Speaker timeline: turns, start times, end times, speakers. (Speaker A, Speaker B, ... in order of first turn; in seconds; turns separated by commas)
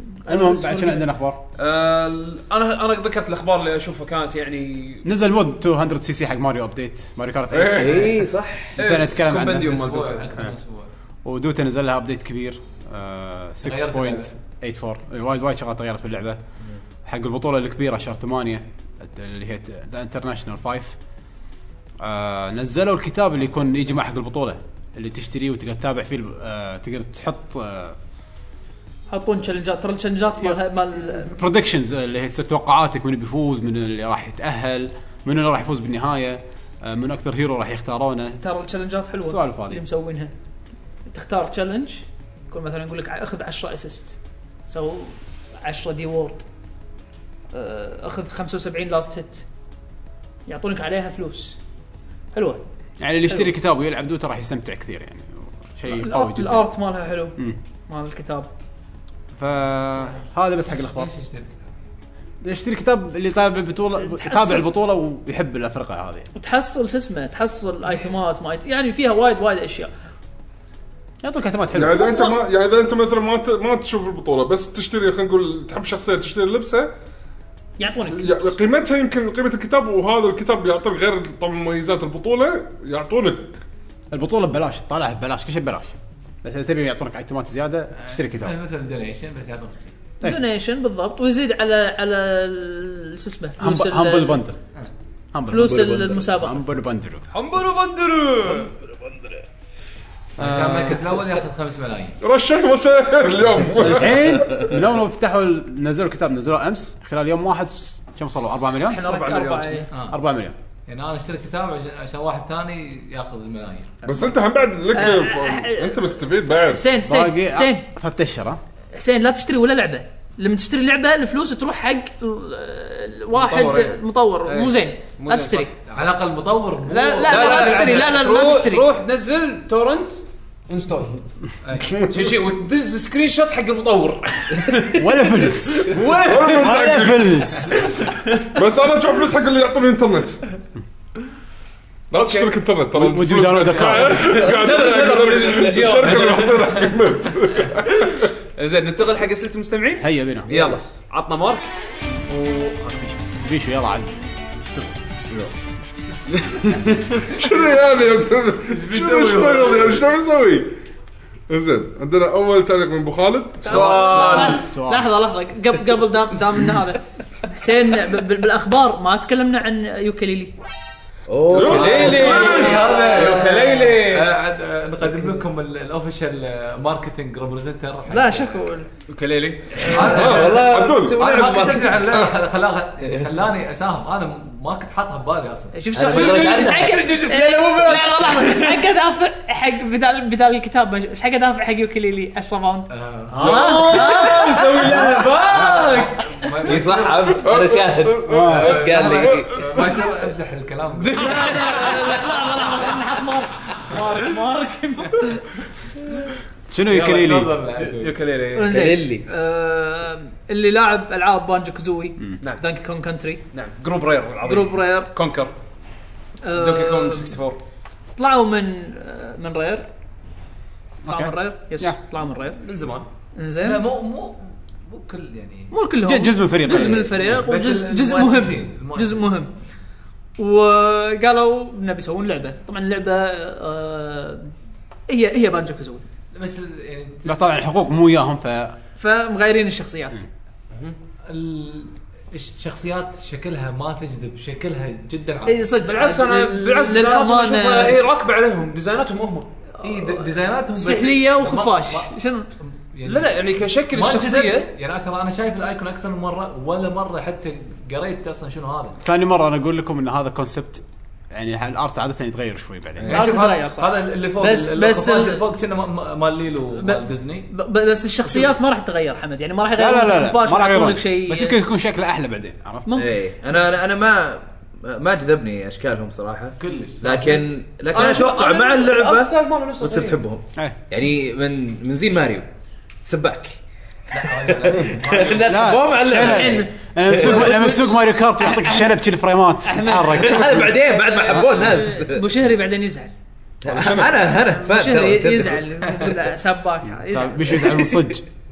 Speaker A: 0.2-1.1, Speaker B: 0.3-1.4, Speaker C: 1.6-5.0, Speaker B: 5.0-8.2, Speaker D: 7.5-7.9, Speaker E: 7.7-8.8, Speaker B: 8.8-9.8, Speaker C: 8.8-10.4, Speaker F: 9.5-10.9, Speaker B: 11.2-16.4, Speaker F: 13.6-14.3, Speaker B: 17.0-20.9, Speaker B: 22.0-28.0, Speaker A: 29.1-31.3, Speaker B: 30.4-38.4, Speaker A: 38.4-40.3, Speaker B: 39.2-39.8, Speaker A: 41.1-46.4, Speaker A: 47.5-49.5, Speaker A: 50.5-51.6, Speaker A: 52.3-52.6, Speaker B: 53.0-56.6, Speaker A: 55.9-58.5, Speaker B: 59.4-61.1, Speaker F: 60.7-61.5, Speaker B: 62.4-66.3, Speaker A: 64.0-64.7, Speaker A: 66.3-69.9, Speaker B: 71.2-72.1, Speaker D: 71.7-76.9, Speaker A: 72.0-72.3, Speaker A: 77.8-78.5, Speaker D: 78.1-83.6, Speaker B: 84.1-88.5, Speaker F: 88.0-89.9, Speaker A: 90.2-94.4, Speaker B: 93.6-94.6, Speaker B: 95.3-97.2, Speaker A: 95.5-96.6, Speaker C: 97.3-98.7, Speaker B: 100.4-101.0, Speaker F: 100.4-102.2, Speaker D: 102.2-104.7, Speaker B: 103.8-109.0, Speaker A: 108.8-109.9, Speaker C: 108.9-109.9, Speaker F: 109.9-110.2, Speaker B: 110.1-110.5, Speaker F: 110.9-114.2, Speaker D: 114.0-116.9, Speaker A: 114.9-117.8, Speaker B: 117.0-118.6, Speaker A: 118.9-125.7, Speaker C: 123.3-125.7, Speaker F: 125.8-128.1, Speaker A: 126.9-128.9, Speaker C: 127.2-131.2, Speaker F: 131.6-131.9, Speaker D: 131.8-132.3, Speaker C: 132.1-136.9, Speaker B: 134.9-137.9, Speaker D: 136.2-137.6, Speaker C: 137.8-138.5, Speaker D: 138.5-140.4, Speaker D: 142.1-148.3, Speaker C: 142.1-142.5, Speaker B: 142.9-144.5, Speaker C: 143.8-146.9, Speaker C: 147.7-153.2, Speaker B: 150.0-150.5, Speaker E: 150.5-150.8, Speaker B: 153.4-155.0, Speaker C: 156.3-157.2, Speaker D: 157.2-160.7, Speaker F: 158.7-160.0, Speaker D: 161.5-164.0, Speaker A: 163.6-170.5, Speaker C: 163.6-164.6, Speaker B: 163.7-165.1, Speaker E: 171.3-173.7, Speaker D: 171.5-172.8, Speaker C: 171.6-174.3, Speaker F: 171.6-178.7, Speaker A: 172.1-172.8, Speaker A: 178.1-178.9, Speaker C: 179.1-180.3, Speaker F: 179.8-188.3, Speaker D: 180.0-181.2, Speaker E: 180.1-182.0, Speaker A: 185.7-195.1, Speaker E: 185.9-187.9, Speaker F: 192.9-197.5, Speaker C: 193.4-195.1, Speaker D: 193.4-193.8, Speaker E: 193.5-196.1, Speaker E: 196.6-199.7, Speaker D: 197.4-199.9, Speaker B: 198.3-198.8, Speaker F: 198.5-201.2, Speaker C: 200.9-202.2, Speaker A: 201.1-205.6, Speaker B: 206.7-207.5, Speaker F: 206.8-208.2, Speaker C: 207.8-208.8, Speaker A: 208.5-213.4, Speaker E: 208.7-209.3, Speaker C: 213.5-215.5, Speaker A: 214.4-215.1, Speaker A: 216.4-217.3, Speaker C: 216.5-217.6, Speaker A: 218.2-219.9, Speaker B: 221.0-222.0, Speaker A: 221.1-222.6, Speaker C: 222.6-223.1, Speaker A: 223.3-223.8, Speaker F: 223.6-225.7, Speaker A: 225.7-229.5, Speaker B: 226.0-227.2, Speaker F: 226.7-229.2, Speaker A: 230.4-234.5, Speaker A: 235.1-236.0, Speaker F: 236.3-237.3, Speaker B: 237.2-238.8, Speaker A: 239.0-240.2, Speaker F: 241.3-245.7, Speaker A: 245.4-248.0, Speaker C: 245.8-249.5, Speaker A: 249.8-252.5, Speaker F: 249.8-259.0, Speaker C: 253.1-254.7, Speaker B: 259.0-263.2, Speaker F: 263.0-267.5, Speaker A: 263.1-265.4, Speaker A: 266.8-271.6, Speaker F: 268.2-268.6, Speaker B: 269.8-272.9, Speaker A: 272.9-273.1, Speaker E: 272.9-282.4, Speaker F: 276.6-277.5, Speaker C: 277.9-280.2, Speaker E: 283.0-283.6, Speaker F: 284.1-285.6, Speaker E: 284.2-287.7, Speaker B: 285.4-290.8, Speaker A: 286.1-288.9, Speaker A: 289.6-290.4, Speaker E: 290.1-292.3, Speaker A: 291.1-293.1, Speaker E: 293.6-295.7, Speaker D: 293.7-294.1, Speaker A: 294.3-297.9, Speaker B: 297.1-298.2, Speaker E: 297.7-298.0